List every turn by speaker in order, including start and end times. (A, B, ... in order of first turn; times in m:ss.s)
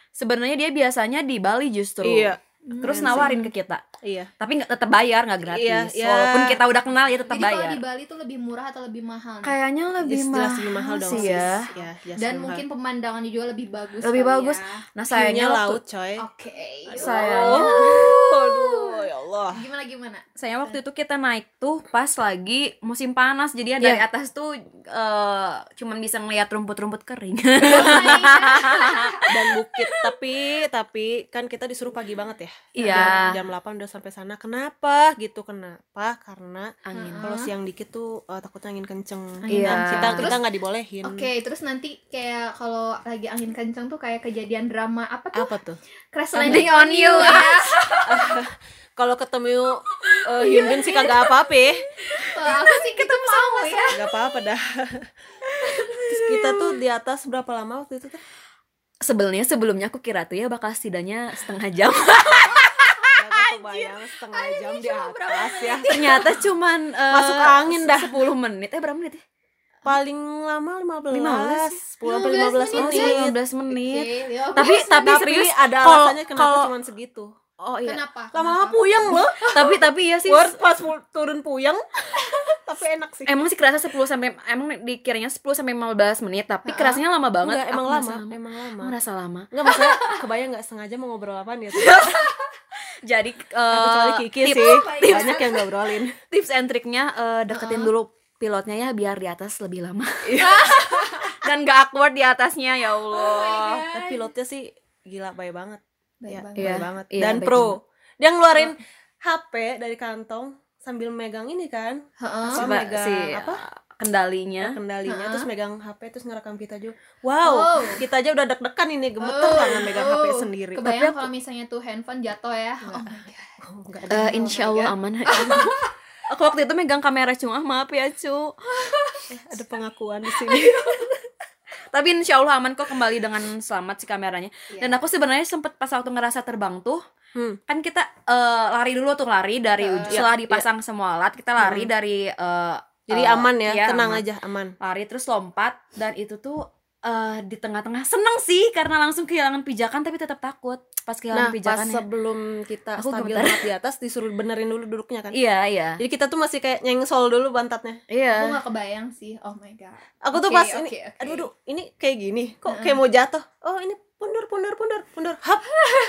0:00.2-0:03.8 A
0:02.0-0:03.4 B
0:02.7-0:03.5 C
0:04.0-0:04.3 B
0:04.4-0:07.8 A
0:05.5-0:06.6 B
0:07.3-0:09.6 C
0:09.4-0:11.6 A
0:10.0-0:12.6 B
0:11.0-0:14.8 C
0:14.0-0:15.8 A
0:15.1-0:16.2 B
0:16.2-0:19.0 C
0:16.9-0:19.6 B
0:17.0-0:18.2 A
0:19.5-0:20.8 C
0:20.4-0:29.0 A
0:27.6-0:29.3 C
0:27.7-0:28.2 B
0:29.3-0:41.3 B
0:29.8-0:30.0 A
0:32.8-0:33.3 A
0:32.8-0:33.4 C
0:36.9-0:37.3 A
0:36.9-0:37.5 C
0:39.4-0:40.4 C
0:39.5-0:40.4 A
0:41.0-0:45.5 C
0:45.3-0:45.8 B
0:46.1-0:48.0 C
0:46.4-0:46.7 B
0:46.4-0:48.3 A
0:48.1-0:51.8 B
0:50.1-0:51.2 A
0:50.4-0:51.1 C
0:52.2-0:54.1 A
0:52.2-0:54.0 C
0:53.9-0:55.1 B
0:55.5-0:56.7 A
0:56.1-0:58.2 B
0:59.0-1:04.9 A
1:03.2-1:06.2 B
1:05.0-1:06.3 C
1:05.5-1:09.2 A
1:07.1-1:08.2 B
1:09.8-1:13.4 B
1:11.1-1:11.8 A
1:12.0-1:15.1 C
1:12.8-1:16.7 A
1:14.9-1:17.6 B
1:17.7-1:18.0 A
1:17.8-1:19.6 C
1:18.3-1:23.3 B
1:19.1-1:20.5 A
1:23.3-1:30.1 A
1:27.4-1:29.0 B
1:29.5-1:32.2 B
1:31.7-1:32.3 A
1:33.0-1:35.7 A
1:33.7-1:36.1 B
1:34.7-1:35.5 C
1:36.3-1:43.8 A
1:37.5-1:37.9 C
1:40.4-1:41.4 C
1:43.1-1:44.3 C
1:43.3-1:53.6 B
1:46.2-1:46.9 C
1:46.6-1:47.8 A
1:52.2-1:52.6 C
1:52.6-1:54.8 A
1:54.6-2:00.8 B
1:55.1-1:55.5 C
1:57.4-1:58.0 C
1:59.2-2:03.5 C
2:00.8-2:01.3 A
2:02.8-2:04.6 B
2:04.1-2:05.7 C
2:04.1-2:05.8 A
2:06.3-2:08.5 A
2:08.8-2:09.2 C
2:09.3-2:11.1 B
2:10.4-2:11.1 A
2:11.9-2:17.0 A
2:14.7-2:15.0 C
2:17.7-2:24.2 A
2:19.8-2:20.3 C
2:20.1-2:20.7 B
2:21.6-2:21.9 B
2:23.1-2:24.8 B
2:24.8-2:32.0 A
2:31.3-2:35.4 B
2:33.0-2:33.6 A
2:35.3-2:36.0 A
2:36.0-2:38.0 B
2:38.1-2:38.6 A
2:38.4-2:41.5 C
2:40.2-2:45.7 B
2:42.7-2:43.0 C